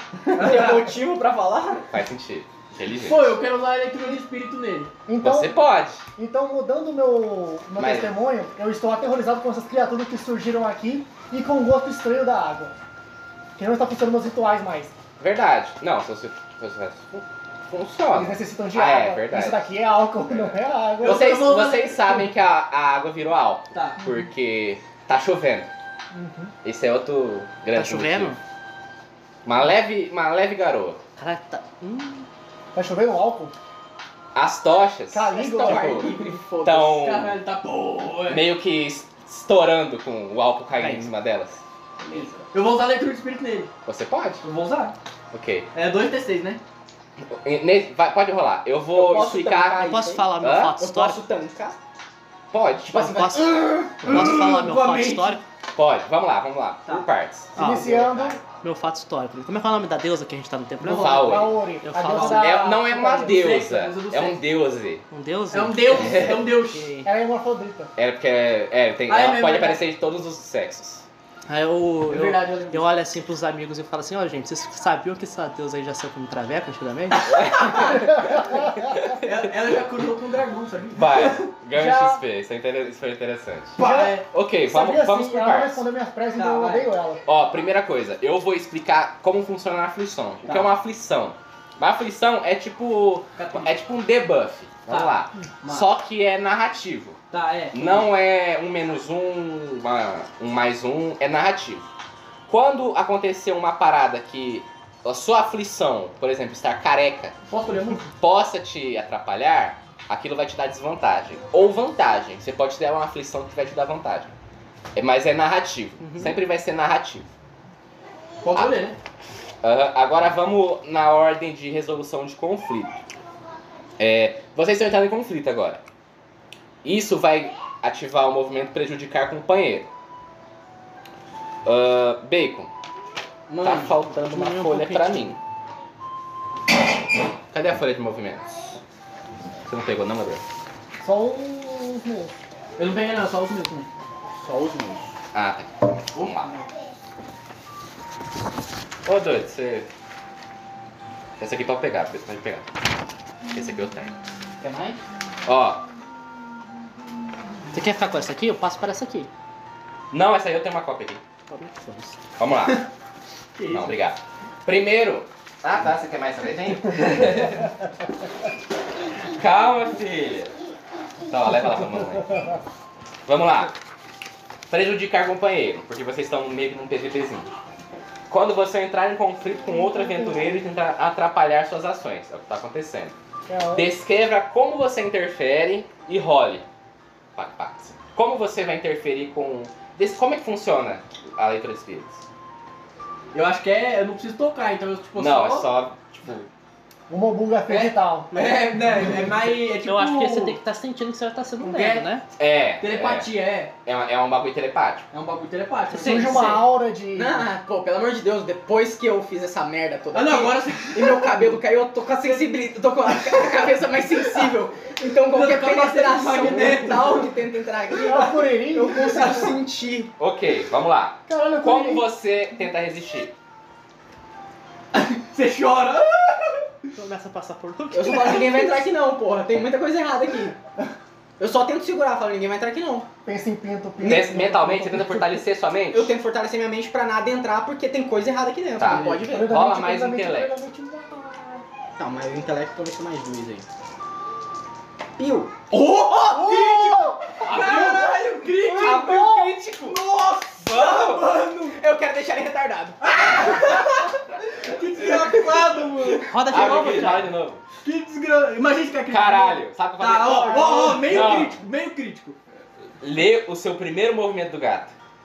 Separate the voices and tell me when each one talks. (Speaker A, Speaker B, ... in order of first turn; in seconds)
Speaker A: 0.3-0.9, 3.0-4.9, 21.0-22.3, 23.7-24.0, 36.9-38.5, 42.5-43.7, 44.4-45.0, 45.7-46.6, 53.5-55.4, 62.1-64.4, 65.5-67.0, 69.1-69.8, 72.1-72.9, 79.2-81.5, 83.8-84.3, 86.4-86.9, 90.5-90.7, 93.4-93.7, 94.9-95.9, 97.3-98.1, 107.5-108.1, 118.4-119.0, 133.5-133.9, 142.8-143.9, 146.2-146.7, 163.6-164.0, 193.3-195.7, 197.7-200.6, 201.6-202.1, 202.8-203.7, 205.1-206.6, 210.1-214.5, 215.3-217.4, 224.9-226.7, 238.8-239.3, 245.7-251.8, 253.1-256.3, 257.8-262.4
Speaker B: 0.3-1.9, 35.3-37.0, 42.1-42.4, 49.0-51.8, 52.9-53.9, 144.3-145.1, 154.6-155.0, 207.1-220.1, 227.9-230.6, 231.4-233.1, 235.9-239.6, 242.0-243.7, 245.2-245.6, 250.8-254.1
Speaker C: 1.9-3.4, 5.2-6.0, 7.8-8.2, 15.2-19.7, 20.3-25.7, 26.6-28.4, 29.4-31.0, 34.4-37.4, 38.3-42.3, 43.9-44.4, 45.3-45.7, 47.2-50.8, 52.5-53.1, 55.8-58.4, 60.9-61.6, 62.2-65.0, 66.0-66.3, 68.0-71.0, 77.3-78.0, 81.0-85.8, 87.3-97.2, 97.7-101.9, 102.5-107.3, 108.2-114.3, 115.0-117.3, 118.5-118.8, 119.6-123.0, 124.0-125.8, 126.8-129.9, 131.7-132.7, 133.6-135.4, 137.5-138.8, 139.7-140.4, 145.3-146.5, 149.1-149.9, 151.4-152.7, 153.5-154.1, 155.4-155.8, 160.1-161.2, 162.4-162.8, 163.7-167.7, 169.3-170.5, 171.3-172.4, 173.3-173.7, 174.7-177.5, 178.3-183.2, 183.7-186.7, 187.3-192.2, 195.2-196.5, 202.4-203.3, 203.8-205.1, 220.2-223.3, 234.0-236.1, 238.8-240.6, 247.4-250.0, 250.6-251.3, 256.5-257.6, 259.1-261.6, 263.0-264.9
Speaker D: 5.1-5.6, 6.2-12.8, 13.6-15.0, 18.1-21.5, 26.1-26.5, 32.7-33.5, 35.1-36.2, 57.6-58.4, 61.0-63.4, 67.0-67.9, 81.7-82.2, 83.8-87.2, 141.0-142.3, 183.5-183.9, 197.1-198.7, 206.0-207.5, 218.1-219.6, 221.3-222.1, 233.2-235.4, 239.2-241.7, 246.3-247.6, 248.8-249.5, 260.5-261.1
Speaker E: 27.7-28.4, 31.2-32.3, 40.8-41.1, 49.8-51.2, 52.9-55.4, 57.6-57.9, 58.6-62.5, 65.1-67.1, 71.5-78.1, 134.1-135.4, 157.7-159.3, 161.5-162.2, 199.8-202.3, 205.9-206.4, 226.9-228.8, 256.3-257.3